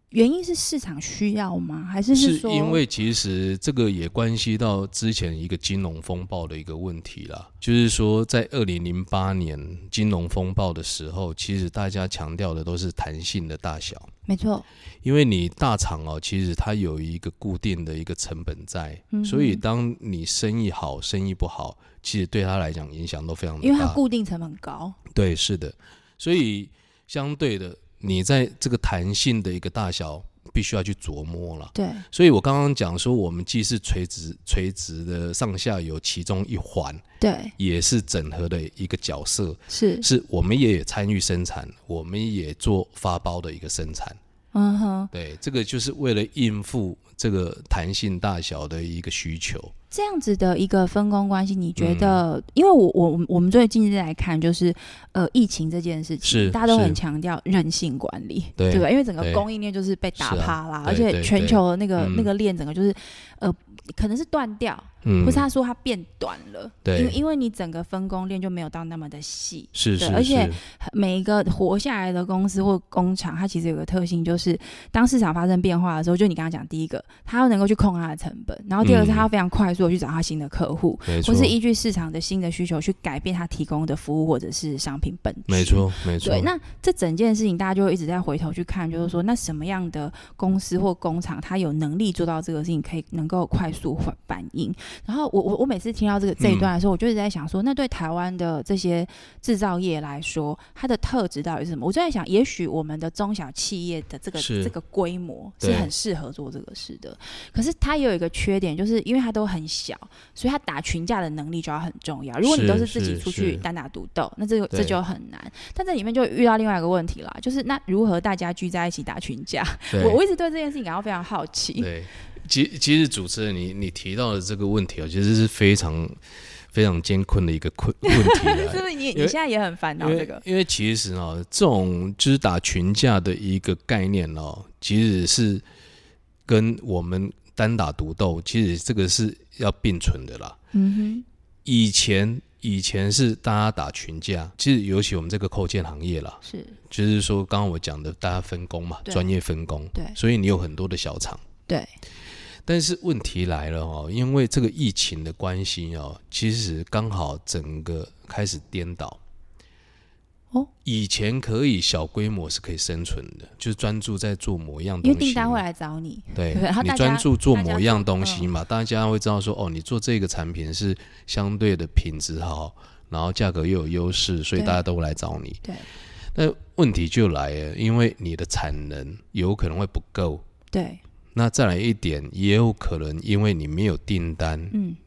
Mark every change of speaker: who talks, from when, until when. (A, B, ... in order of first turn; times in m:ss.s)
0:00.1-0:02.8 A
0:02.1-0:14.1 B
0:14.3-0:14.7 A
0:15.0-0:24.0 B
0:19.1-0:19.6 A
0:23.6-0:25.0 A
0:25.1-0:37.0 B
0:31.8-0:32.0 A
0:37.2-0:37.6 A
0:37.6-0:44.2 B
0:39.7-0:40.1 A
0:44.5-0:45.1 A
0:45.1-0:49.7 B
0:49.9-2:01.9 A
0:51.8-0:52.2 B
0:56.2-0:57.0 B
0:58.6-0:59.4 B
1:00.2-1:02.3 B
1:05.0-1:05.5 B
1:06.8-1:07.2 B
1:09.8-1:10.6 B
1:18.8-1:19.3 B
1:21.1-1:21.6 B
1:25.5-1:26.5 B
1:36.4-1:36.7 B
1:44.4-1:44.7 B
1:45.6-1:45.9 B
1:52.4-1:53.6 B
1:54.7-1:55.0 B
1:59.9-2:00.2 B
2:01.8-2:06.2 B
2:06.7-2:09.4 B
2:08.0-2:10.4 A
2:10.0-2:15.6 B
2:16.5-2:20.6 B
2:20.7-2:21.2 A
2:21.6-2:31.4 B
2:26.4-2:26.8 A
2:32.6-2:39.2 B
2:40.8-2:45.6 B
2:45.0-2:48.5 A
2:46.4-2:55.6 B
2:56.4-3:00.4 B
3:00.7-3:01.0 A
3:01.3-3:04.7 B
3:04.7-3:05.0 A